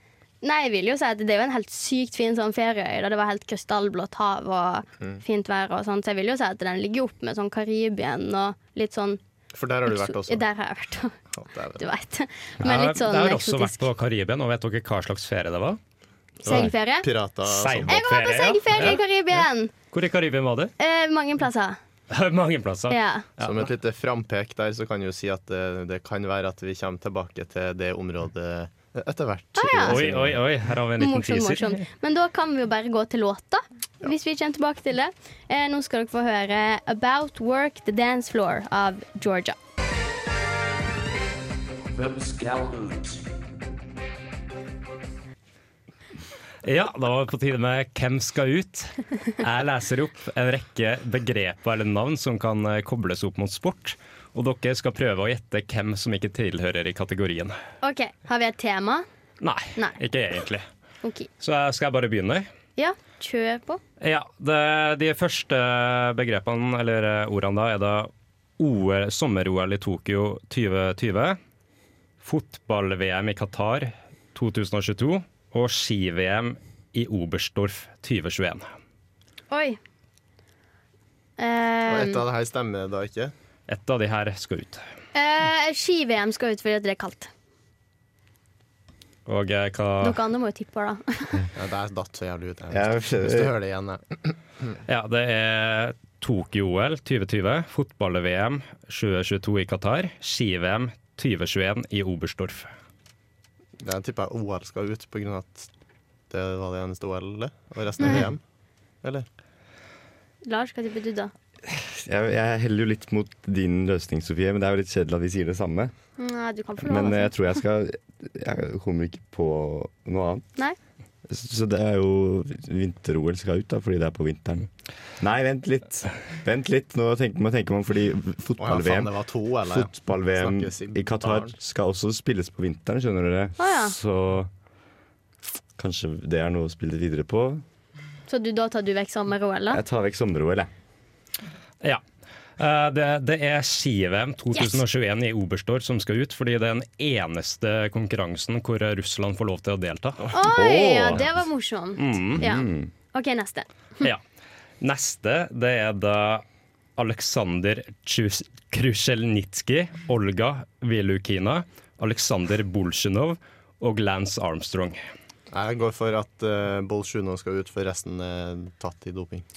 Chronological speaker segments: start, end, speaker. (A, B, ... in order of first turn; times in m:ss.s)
0:00.4-0:09.2 A
0:09.5-0:10.4 B
0:09.9-0:11.1 A
0:11.3-0:11.8 B
0:11.8-0:13.8 A
0:12.6-0:15.8 C
0:16.4-0:17.1 A
0:16.4-0:18.0 B
0:17.5-0:19.0 C
0:17.9-0:19.7 A
0:19.9-0:20.7 C
0:20.8-0:21.8 A
0:22.1-0:23.7 C
0:22.9-0:23.2 A
0:23.4-0:30.4 B
0:29.5-0:30.0 A
0:29.8-0:31.8 C
0:31.0-0:39.6 A
0:46.6-0:57.6 C
0:57.8-0:59.0 A
0:59.4-1:00.6 C
1:01.0-1:01.3 A
1:01.4-1:02.4 C
1:02.8-1:03.8 A
1:04.0-1:11.4 C
1:12.2-1:18.7 C
1:19.5-1:19.8 A
1:21.4-1:22.2 A
1:21.9-1:23.3 B
1:23.7-1:24.8 C
1:25.1-1:27.3 A
1:29.2-1:30.2 C
1:30.0-1:31.4 A
1:31.5-1:34.8 B
1:32.7-1:33.5 D
1:34.9-1:42.7 C
1:43.8-1:45.7 B
1:46.3-1:48.4 B
1:50.4-1:51.3 A
1:51.7-1:55.9 D
1:56.2-1:57.3 A
1:56.8-2:00.4 D
2:01.3-2:04.7 D
2:05.2-2:09.1 D
2:08.6-2:11.5 B
2:09.7-2:14.5 D
2:13.6-2:13.9 A
2:15.8-2:17.6 D
2:18.3-2:19.8 A
2:19.7-2:20.7 D
2:22.6-2:30.2 C
2:24.5-2:24.8 A
2:30.3-2:34.0 A
2:30.4-2:31.3 D
2:32.0-2:32.4 C
2:32.3-2:32.9 D
2:34.8-2:36.4 C
2:37.0-2:45.0 C
2:45.5-2:49.4 B